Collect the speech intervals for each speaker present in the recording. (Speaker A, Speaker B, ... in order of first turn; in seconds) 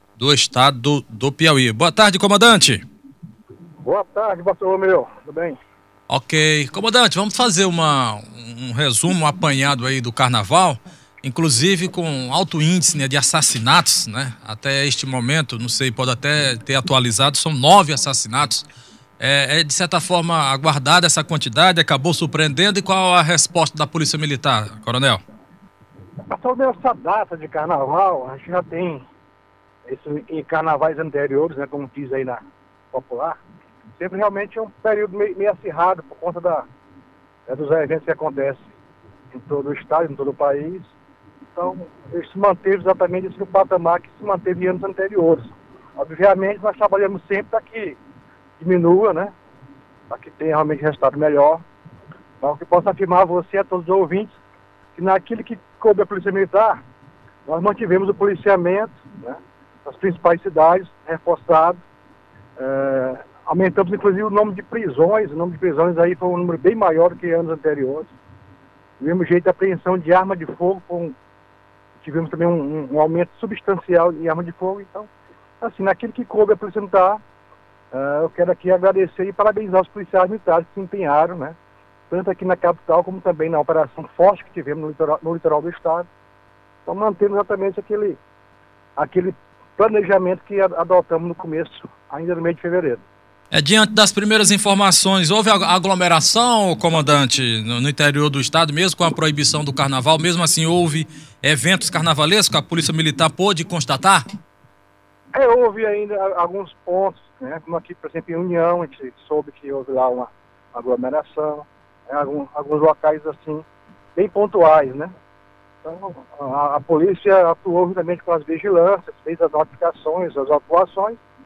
Speaker A: 0.2-2.8, 6.1-18.7, 19.2-25.2, 93.5-104.2
Speaker B: 3.8-5.6, 26.3-29.0, 29.9-32.4, 32.9-33.4, 34.0-36.6, 37.5-38.7, 39.3-40.9, 41.5-48.0, 48.6-49.3, 50.1-51.6, 52.4-54.3, 55.0-56.8, 57.5-61.8, 62.6-68.1, 69.0-71.2, 72.0-75.1, 75.6-77.2, 77.9-81.5, 82.1-86.1, 86.9-88.2, 89.0-93.0, 105.3-113.6, 114.2-115.1, 115.8-121.2